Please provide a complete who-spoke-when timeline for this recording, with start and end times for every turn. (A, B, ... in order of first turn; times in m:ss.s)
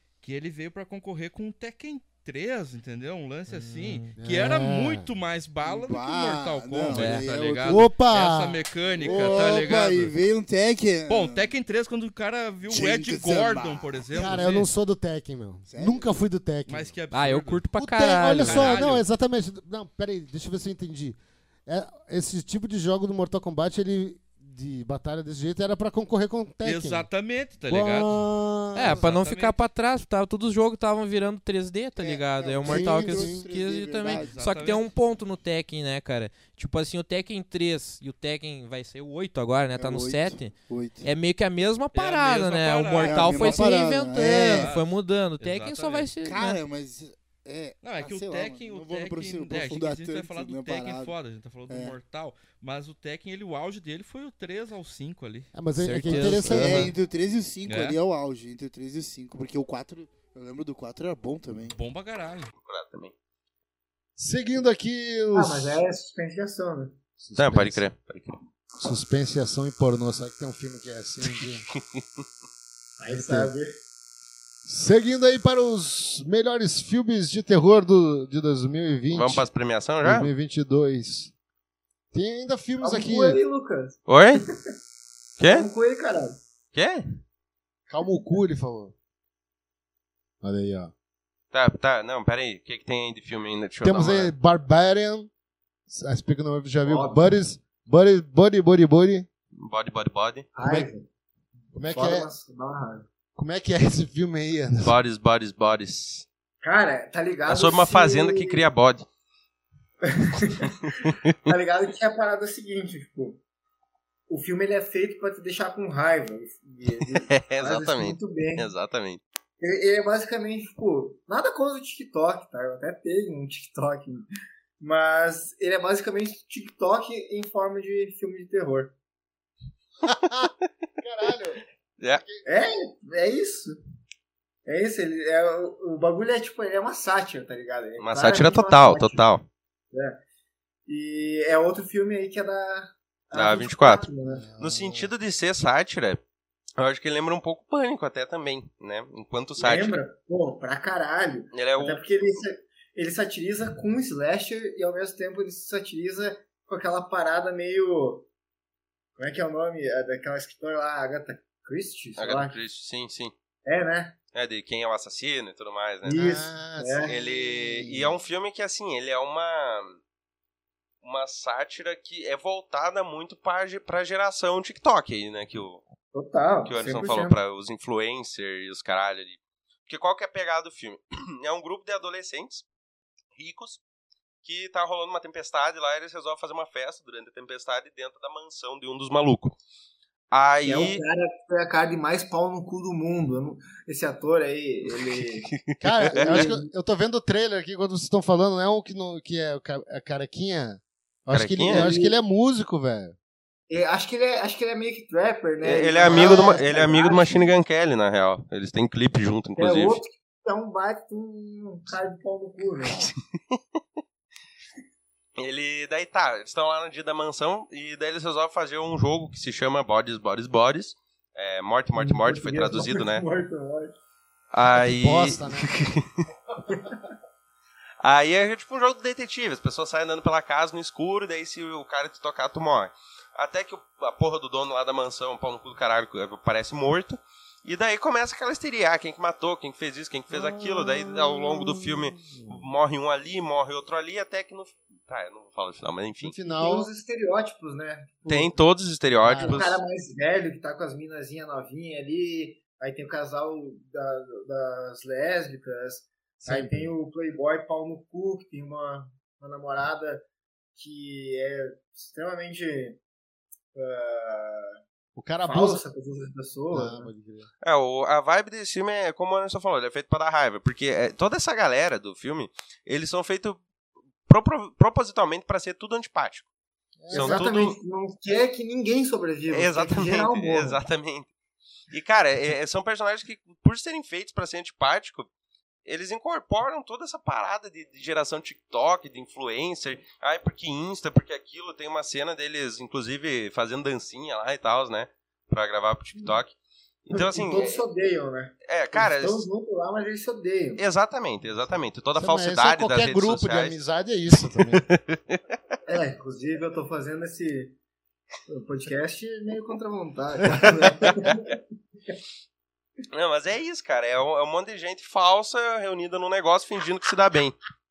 0:00.2-0:10.2 A
0:03.5-0:04.1 B
0:04.2-0:05.1 C
0:05.6-0:07.9 D
0:06.9-0:07.3 B
0:07.6-0:10.0 C
0:09.0-0:11.5 D
0:11.1-0:14.7 A
0:12.7-0:14.3 D
0:14.1-0:16.9 C
0:15.7-0:16.1 D
0:16.7-0:17.7 A
0:17.1-0:18.7 B
0:17.8-0:27.1 C
0:18.3-0:19.1 A
0:26.6-0:28.3 A
0:27.7-0:29.0 C
0:28.7-0:46.6 B
0:28.8-0:29.6 A
0:32.0-0:34.4 D
0:32.6-0:33.4 C
0:34.3-0:35.0 A
0:39.7-0:41.2 D
0:41.9-0:43.6 A
0:42.9-0:44.8 D
0:44.3-0:46.2 A
0:46.2-0:51.2 D
0:47.8-0:55.6 A
0:51.7-0:52.0 D
0:55.5-0:56.9 C
0:55.8-0:56.8 B
0:56.0-1:01.8 D
0:57.7-0:58.0 A
1:01.7-1:02.5 A
1:02.6-1:03.1 E
1:04.2-1:05.8 C
1:05.3-1:07.0 F
1:07.2-1:07.9 C
1:07.4-1:08.4 E
1:08.8-1:11.7 C
1:13.0-1:13.7 F
1:13.1-1:13.5 C
1:14.6-1:19.5 C
1:19.1-1:20.3 E
1:20.0-1:21.3 C
1:22.1-1:23.4 C
1:22.8-1:24.0 F
1:24.1-1:24.4 E
1:25.4-1:25.7 E
1:25.4-1:26.4 F
1:26.7-1:27.1 E
1:27.9-1:28.9 C
1:30.4-1:30.9 C
1:31.5-1:34.3 E
1:33.8-1:35.3 C
1:35.9-1:39.3 C
1:36.8-1:37.4 F
1:39.6-1:40.5 E
1:40.6-1:41.1 F
1:40.6-1:40.9 C
1:41.7-1:42.3 C
1:41.9-1:43.1 F
1:43.4-1:45.0 C
1:44.8-1:46.3 E
1:46.6-1:48.6 F
1:47.5-1:49.1 E
1:50.0-1:53.4 F
1:50.8-1:51.3 E
1:54.3-1:58.7 F
1:57.1-1:59.2 E
1:59.6-2:04.3 F
2:04.8-2:08.9 F
2:10.1-2:11.6 C
2:12.1-2:12.4 C
2:12.4-2:13.8 F
2:14.7-2:19.3 F
2:18.0-2:19.5 E
2:19.9-2:20.2 F
2:20.9-2:24.5 F
2:23.3-2:26.2 E
2:24.2-2:25.1 C
2:26.8-2:30.0 E
2:29.6-2:38.3 F
2:31.5-2:32.1 E
2:39.2-2:42.6 F
2:42.2-2:43.3 E
2:43.6-2:44.2 F
2:44.3-2:46.2 E
2:46.0-2:47.1 F
2:46.1-2:48.1 C
2:47.1-2:50.0 E
2:51.0-2:55.8 E
2:56.1-2:57.4 F
2:56.6-3:02.6 E
3:03.4-3:03.8 E
3:04.4-3:09.6 E
3:10.3-3:11.0 E
3:10.6-3:15.5 F
3:15.1-3:16.5 E
3:15.8-3:23.2 C
3:16.1-3:16.7 F
3:21.3-3:21.9 E
3:21.6-3:22.2 F
3:23.7-3:27.6 F
3:25.6-3:30.0 E
3:26.0-3:26.5 C
3:29.6-3:33.0 F
3:32.8-3:33.6 E
3:35.4-3:43.3 E
3:42.0-3:43.9 F
3:44.5-3:46.1 E
3:44.7-3:45.8 C
3:46.7-3:47.0 F
3:48.0-4:06.4 E
4:00.3-4:02.6 C
4:06.2-4:06.9 C
4:06.5-4:08.5 F
4:08.3-4:09.8 E
4:09.2-4:09.7 C
4:09.3-4:23.0 F
4:16.4-4:16.9 C
4:23.8-4:24.8 F
4:25.2-4:25.8 C
4:25.4-4:27.1 F
4:26.7-4:27.5 C
4:27.6-4:33.6 E
4:34.3-4:36.5 E
4:37.0-4:37.5 C
4:37.1-4:40.8 F
4:37.1-4:37.8 E
4:39.5-4:41.3 E
4:41.9-4:45.3 E
4:45.8-4:56.5 E
4:57.1-4:57.8 E
4:57.1-5:00.8 F
4:58.7-4:59.5 E
5:00.8-5:03.8 E
5:02.2-5:04.9 C
5:04.3-5:05.4 E
5:05.9-5:07.8 F
5:08.5-5:11.6 F
5:10.6-5:11.3 E
5:13.1-5:17.6 E